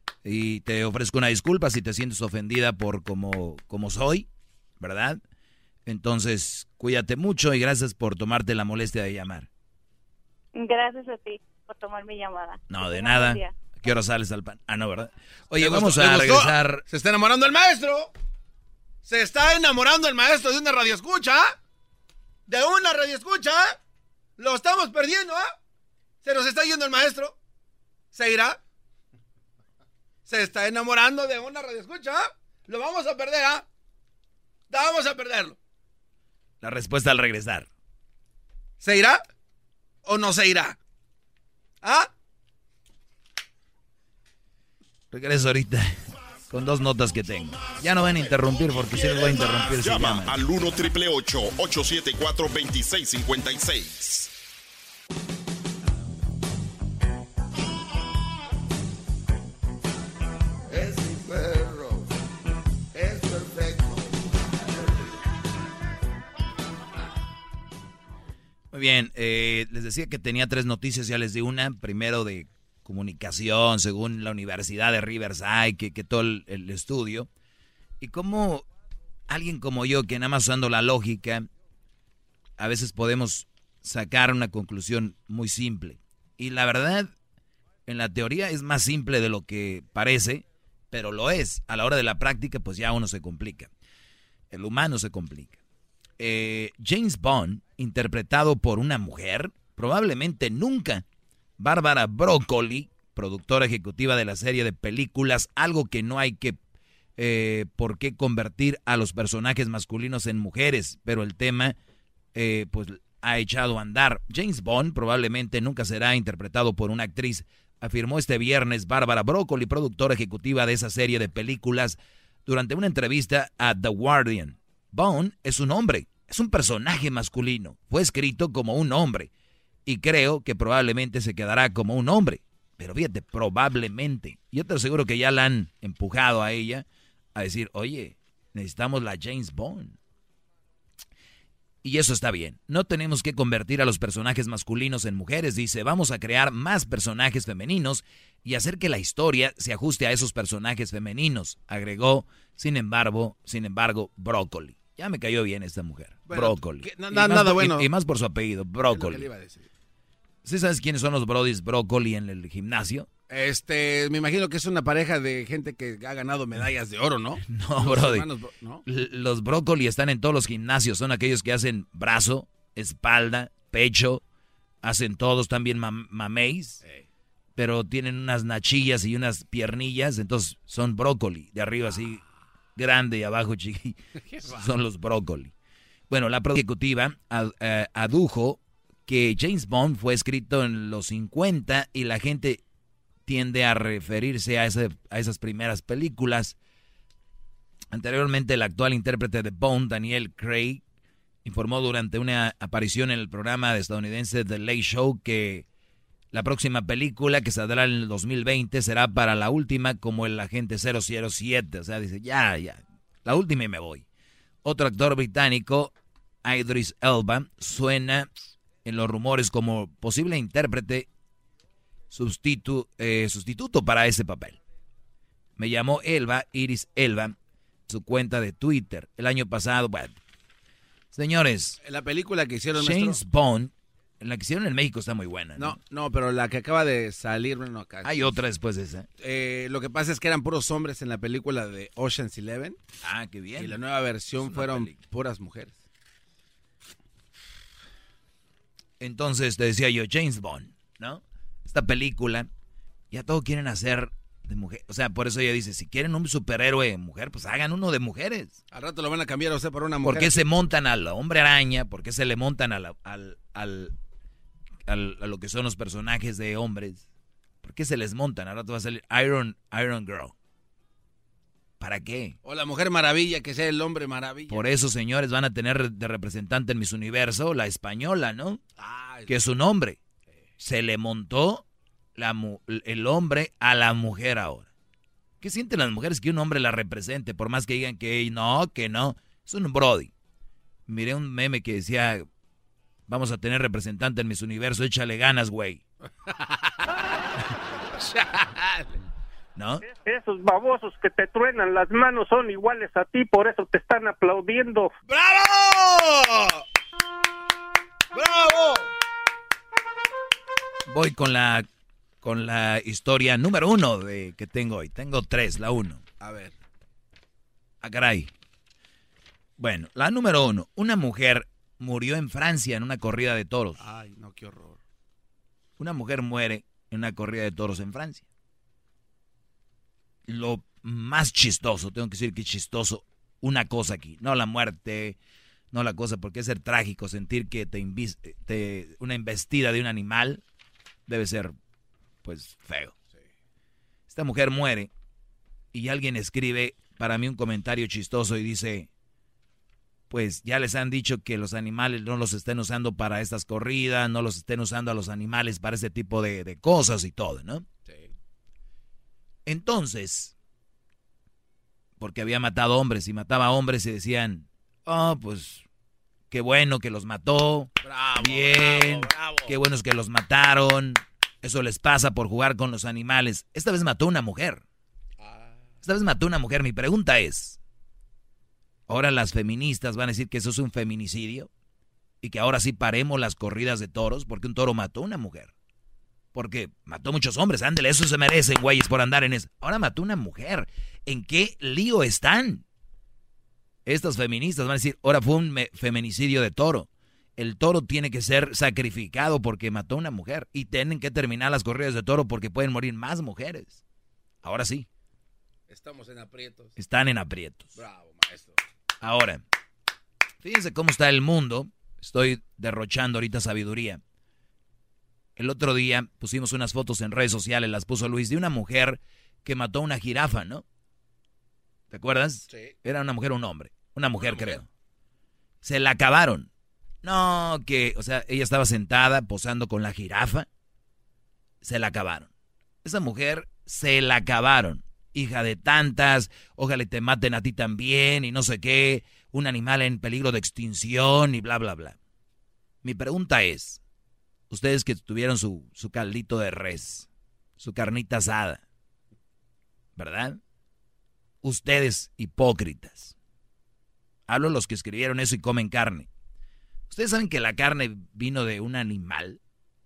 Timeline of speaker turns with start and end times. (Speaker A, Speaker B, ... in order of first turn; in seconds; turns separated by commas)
Speaker A: 0.2-4.3, Speaker A: 4.8-5.2, Speaker A: 5.8-9.5, Speaker B: 10.5-13.5, Speaker A: 12.7-16.9, Speaker C: 15.6-18.1, Speaker C: 19.0-21.6, Speaker C: 22.5-23.8, Speaker C: 24.4-25.5, Speaker C: 26.2-27.4, Speaker C: 28.1-28.6, Speaker C: 30.2-33.6, Speaker C: 34.7-35.6, Speaker A: 36.6-37.7, Speaker C: 38.8-39.2, Speaker C: 40.0-40.8, Speaker C: 41.8-42.1, Speaker A: 45.1-50.4, Speaker D: 48.7-54.3, Speaker E: 60.7-62.1, Speaker E: 62.9-64.2, Speaker A: 68.7-77.3, Speaker A: 78.0-78.7, Speaker A: 79.3-81.5, Speaker A: 82.6-87.1, Speaker A: 87.8-93.7, Speaker A: 94.5-95.6, Speaker A: 96.2-101.0, Speaker A: 101.6-106.6, Speaker A: 107.2-111.8, Speaker A: 112.3-129.3, Speaker A: 129.8-140.0, Speaker A: 141.8-159.3, Speaker C: 156.3-157.9, Speaker C: 158.8-159.7, Speaker A: 160.4-163.1, Speaker C: 163.3-168.8, Speaker A: 167.4-168.3, Speaker A: 168.8-174.2, Speaker A: 174.8-176.8, Speaker A: 177.6-182.2, Speaker A: 182.8-185.5, Speaker C: 184.2-184.7, Speaker A: 186.1-192.6, Speaker A: 193.2-196.6, Speaker A: 197.9-200.8, Speaker A: 201.4-205.7, Speaker A: 206.3-214.0, Speaker A: 214.6-215.9, Speaker A: 216.4-218.3, Speaker A: 218.8-221.1, Speaker A: 222.1-224.6, Speaker A: 225.6-227.3, Speaker A: 227.9-230.2, Speaker A: 231.1-231.8, Speaker C: 231.8-233.2, Speaker A: 232.8-235.8, Speaker C: 235.6-238.3, Speaker A: 238.0-239.1, Speaker C: 239.2-242.8, Speaker A: 243.0-243.8, Speaker C: 243.6-245.8, Speaker A: 244.4-245.0, Speaker A: 249.0-252.5, Speaker A: 253.1-258.6, Speaker C: 258.7-260.4, Speaker A: 260.0-263.9, Speaker A: 264.9-267.1, Speaker A: 267.6-270.3, Speaker A: 271.8-272.4, Speaker C: 272.4-274.6, Speaker A: 274.5-278.6, Speaker C: 278.8-279.3, Speaker A: 279.2-280.0, Speaker A: 280.6-281.6, Speaker A: 282.1-284.7, Speaker A: 285.4-290.1, Speaker A: 290.9-292.3, Speaker A: 293.1-295.8, Speaker C: 296.2-297.1, Speaker C: 297.9-299.0, Speaker A: 299.5-299.8, Speaker F: 299.9-304.9, Speaker C: 305.0-306.6, Speaker C: 308.1-308.9, Speaker A: 310.9-311.7, Speaker A: 312.2-316.0, Speaker C: 316.2-316.6, Speaker A: 317.8-318.3, Speaker A: 319.6-323.8, Speaker C: 323.8-324.8, Speaker A: 325.8-328.2, Speaker A: 330.3-335.2, Speaker A: 335.7-340.4, Speaker A: 341.1-341.5, Speaker A: 342.2-342.9, Speaker A: 344.1-344.9, Speaker A: 345.7-348.9, Speaker A: 350.1-357.7, Speaker C: 357.8-358.1, Speaker A: 359.4-360.3, Speaker A: 362.0-365.6, Speaker A: 366.3-374.6, Speaker C: 367.8-369.6, Speaker C: 375.2-375.7, Speaker A: 375.8-377.6, Speaker A: 378.9-381.5, Speaker A: 382.2-385.5, Speaker A: 386.3-392.6, Speaker A: 393.9-403.8, Speaker A: 404.4-404.9, Speaker C: 405.7-406.8, Speaker A: 406.8-407.8, Speaker C: 407.7-408.6, Speaker A: 409.0-409.4, Speaker A: 410.4-414.0, Speaker A: 415.4-420.6, Speaker A: 421.9-424.6, Speaker C: 422.5-422.7, Speaker C: 424.2-424.6, Speaker A: 425.6-426.5, Speaker A: 427.0-430.5, Speaker A: 431.6-432.3, Speaker A: 432.8-442.0, Speaker A: 442.8-443.8, Speaker A: 444.5-447.1, Speaker A: 447.6-448.6, Speaker A: 449.9-450.4, Speaker A: 451.4-453.1, Speaker A: 454.3-456.1, Speaker A: 456.9-459.4